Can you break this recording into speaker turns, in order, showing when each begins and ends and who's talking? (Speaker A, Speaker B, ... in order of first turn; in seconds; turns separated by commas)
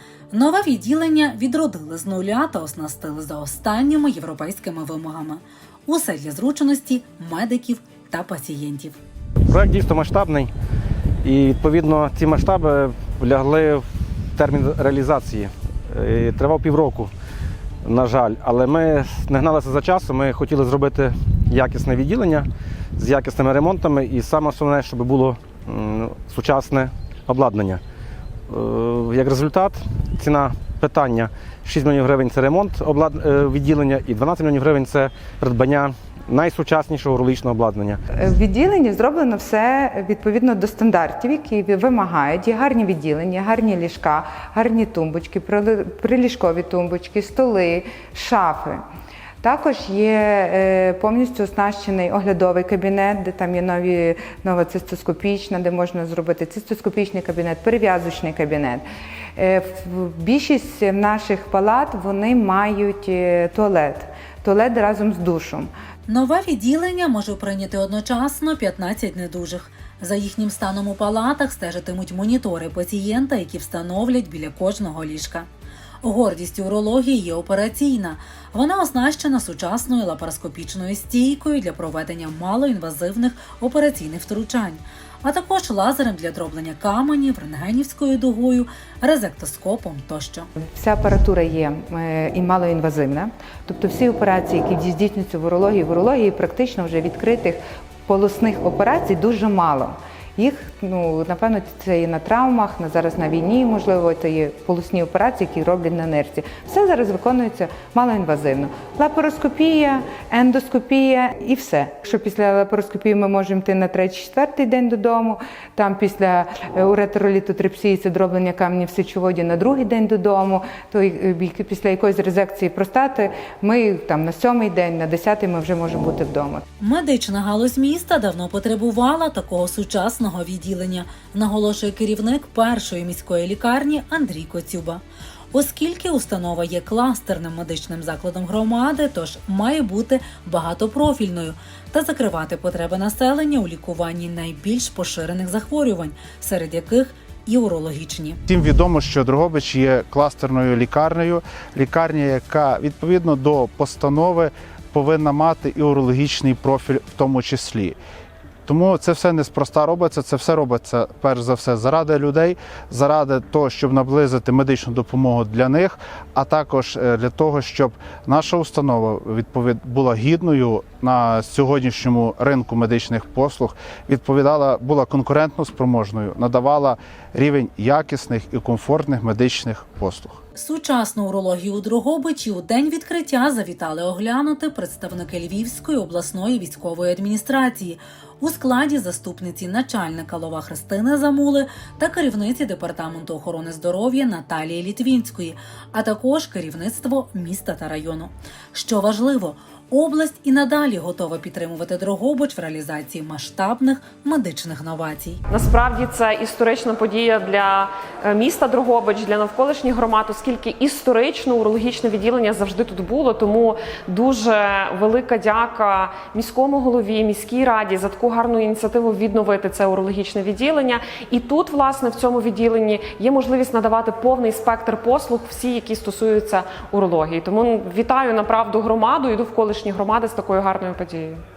Speaker A: 0.3-9.0, Speaker B: 9.4-10.5, Speaker B: 11.2-13.8, Speaker B: 14.3-17.1, Speaker B: 17.8-27.8, Speaker B: 28.5-38.0, Speaker C: 38.1-48.8, Speaker C: 49.4-58.8, Speaker C: 59.4-65.7, Speaker A: 66.1-75.5, Speaker A: 76.0-90.5, Speaker C: 90.7-126.6, Speaker A: 126.8-148.4, Speaker D: 148.5-158.0, Speaker D: 158.7-180.4, Speaker A: 180.6-205.4, Speaker E: 205.5-207.7, Speaker E: 208.3-213.6, Speaker E: 214.1-231.2